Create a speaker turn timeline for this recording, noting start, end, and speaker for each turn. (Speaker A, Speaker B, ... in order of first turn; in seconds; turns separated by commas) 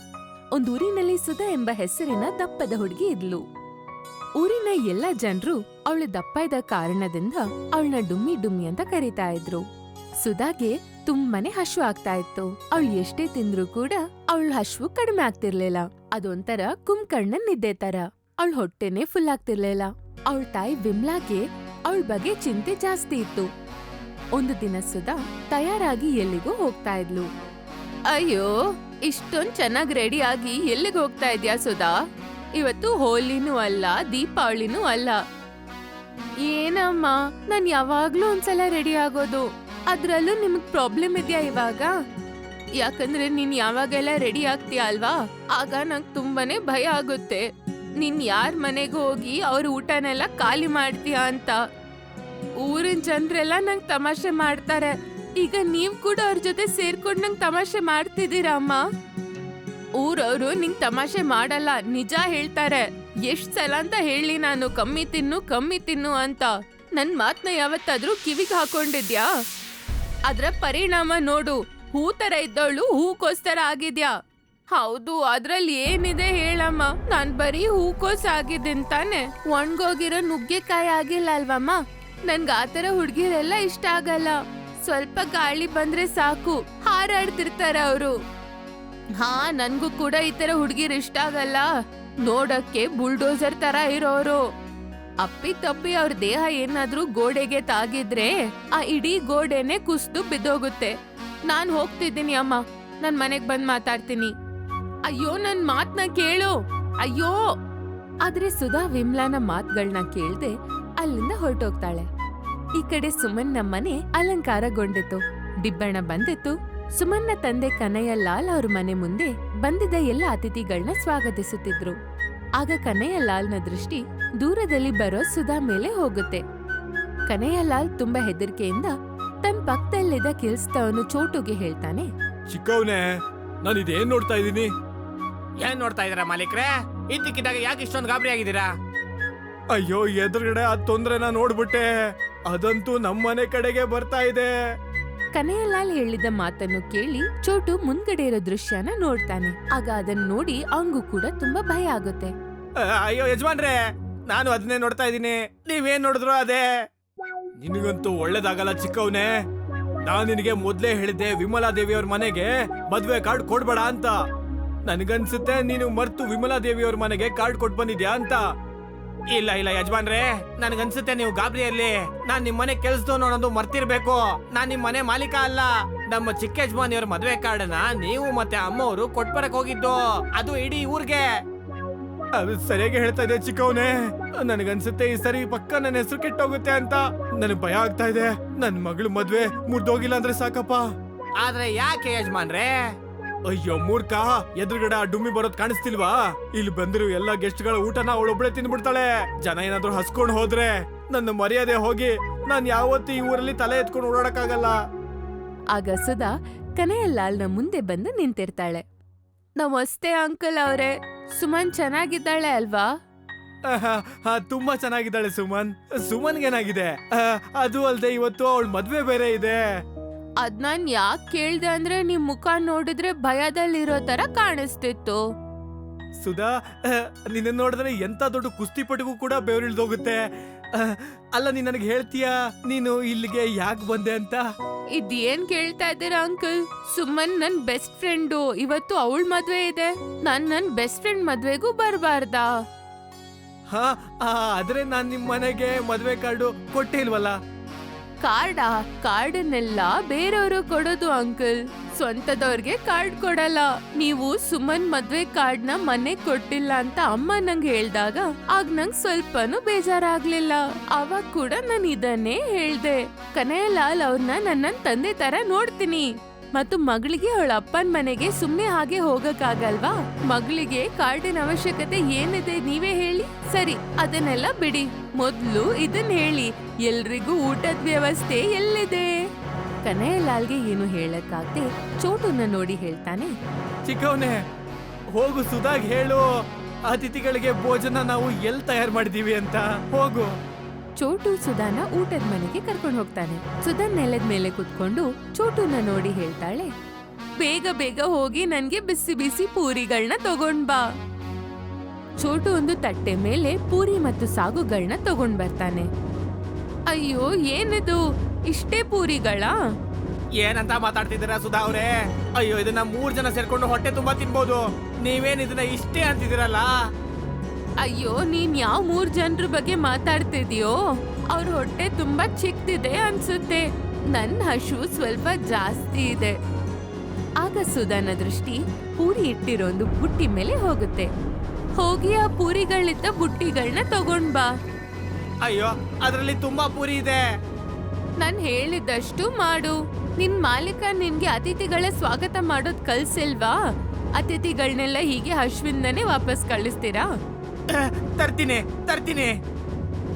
Speaker A: 0.5-3.4, Speaker A: 4.4-9.6, Speaker A: 10.2-23.5, Speaker A: 24.3-27.3, Speaker A: 28.1-31.9, Speaker A: 32.5-35.2, Speaker A: 36.4-41.9, Speaker A: 42.8-47.5, Speaker A: 48.0-51.6, Speaker A: 52.6-58.8, Speaker A: 60.0-69.3, Speaker A: 70.2-74.1, Speaker A: 74.7-88.1, Speaker A: 89.2-91.7, Speaker A: 92.2-94.4, Speaker A: 95.2-101.0, Speaker A: 101.5-104.3, Speaker A: 105.1-107.4, Speaker A: 108.2-112.1, Speaker A: 112.8-122.0, Speaker A: 122.6-126.4, Speaker A: 127.3-132.1, Speaker B: 132.5-133.1, Speaker B: 133.6-134.7, Speaker C: 135.6-138.7, Speaker B: 139.7-141.9, Speaker B: 142.5-144.5, Speaker A: 145.3-152.3, Speaker B: 152.8-153.8, Speaker B: 154.3-156.7, Speaker B: 157.6-159.3, Speaker B: 160.1-164.1, Speaker B: 164.9-168.4, Speaker B: 169.3-181.2, Speaker C: 178.0-179.8, Speaker C: 180.4-181.2, Speaker B: 182.3-190.9, Speaker B: 191.4-192.5, Speaker C: 191.4-192.8, Speaker B: 193.5-204.8, Speaker A: 205.7-208.8, Speaker A: 209.6-212.9, Speaker B: 213.7-219.6, Speaker A: 220.4-225.2, Speaker B: 226.2-234.4, Speaker A: 234.9-242.5, Speaker B: 243.7-247.3, Speaker A: 248.2-279.3, Speaker A: 279.8-283.3, Speaker B: 283.9-284.4, Speaker B: 285.1-286.2, Speaker B: 286.9-290.3, Speaker A: 291.0-296.7, Speaker A: 297.4-300.8, Speaker A: 302.2-305.9, Speaker A: 306.9-309.6, Speaker C: 310.4-311.9, Speaker B: 310.4-316.7, Speaker C: 312.6-314.4, Speaker C: 315.1-316.6, Speaker A: 317.8-320.8, Speaker A: 321.3-326.4, Speaker A: 327.4-331.1, Speaker A: 331.8-334.5, Speaker B: 335.4-337.2, Speaker A: 338.2-343.6, Speaker A: 344.2-347.1, Speaker B: 348.2-349.3